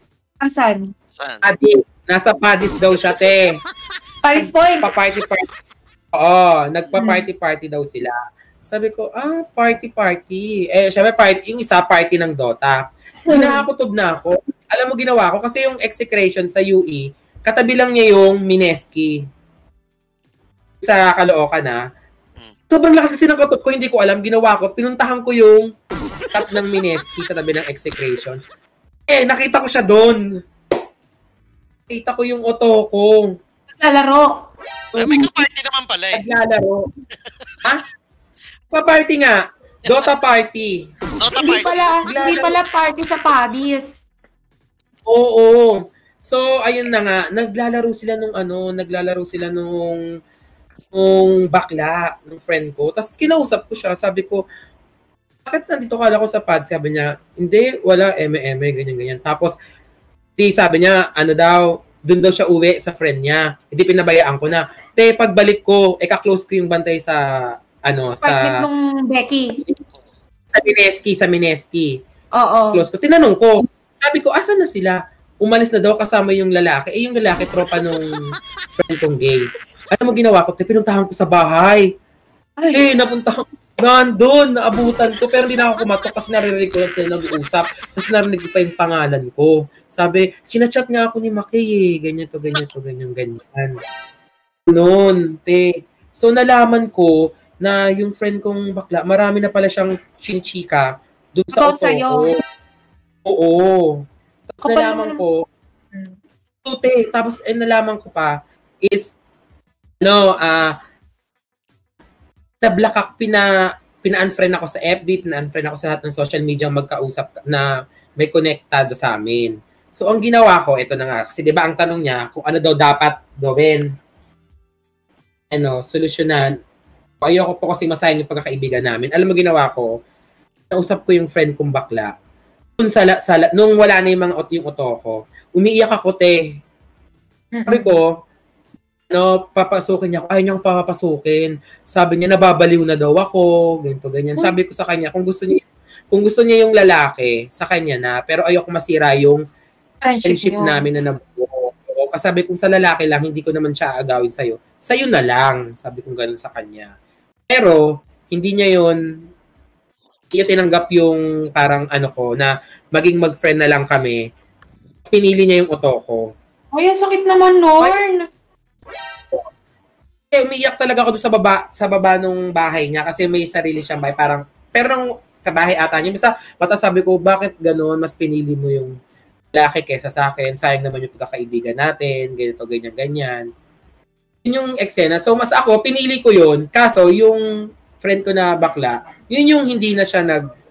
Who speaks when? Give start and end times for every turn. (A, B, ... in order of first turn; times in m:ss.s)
0:00.4-0:00.9 A
0:01.2-0:01.4 B
0:01.4-0:03.6 C
0:04.2-0:04.9 A
0:04.4-0:05.4 C
0:06.2-0:08.1 C
0:07.0-0:07.2 A
0:08.7-0:12.8 C
0:13.3-0:13.6 A
0:13.3-0:19.2 C
0:20.8-0:21.8 C
0:22.7-0:25.7 C
0:26.3-0:28.4 C
0:29.1-0:30.2 C
0:31.9-0:33.3 C
0:33.8-0:34.4 A
0:34.9-0:35.3 C
0:35.0-0:36.2 B
0:36.2-0:36.8 C
0:38.7-0:40.8 C
0:41.2-0:42.0 B
0:41.4-0:44.0 A
0:42.0-0:42.6 C
0:45.1-0:50.0 C
0:50.9-0:54.4 C
0:55.5-0:59.6 C
1:00.4-1:07.2 C
1:07.8-1:08.6 C
1:08.2-1:09.6 A
1:10.5-1:12.0 C
1:12.4-1:12.8 A
1:12.7-1:18.1 C
1:18.8-1:21.9 C
1:22.6-1:22.8 A
1:22.7-1:33.7 C
1:34.7-1:42.4 C
1:41.5-1:42.3 A
1:43.3-1:45.4 C
1:44.6-1:45.2 A
1:46.6-1:49.2 C
1:50.0-1:50.8 C
1:52.6-1:53.5 C
1:54.0-1:57.7 C
1:58.2-2:03.9 C
2:05.5-2:06.6 C
2:07.2-2:09.9 C
2:10.7-2:12.1 C
2:12.8-2:16.4 C
2:17.5-2:17.9 A
2:17.7-2:18.1 C
2:19.1-2:29.4 C
2:30.0-2:30.8 A
2:30.2-2:36.9 C
2:37.5-2:39.0 C
2:40.3-2:44.2 C
2:45.1-2:46.3 C
2:46.7-2:48.2 A
2:50.3-2:59.0 C
2:59.5-3:03.5 C
3:04.4-3:07.4 C
3:08.0-3:10.4 C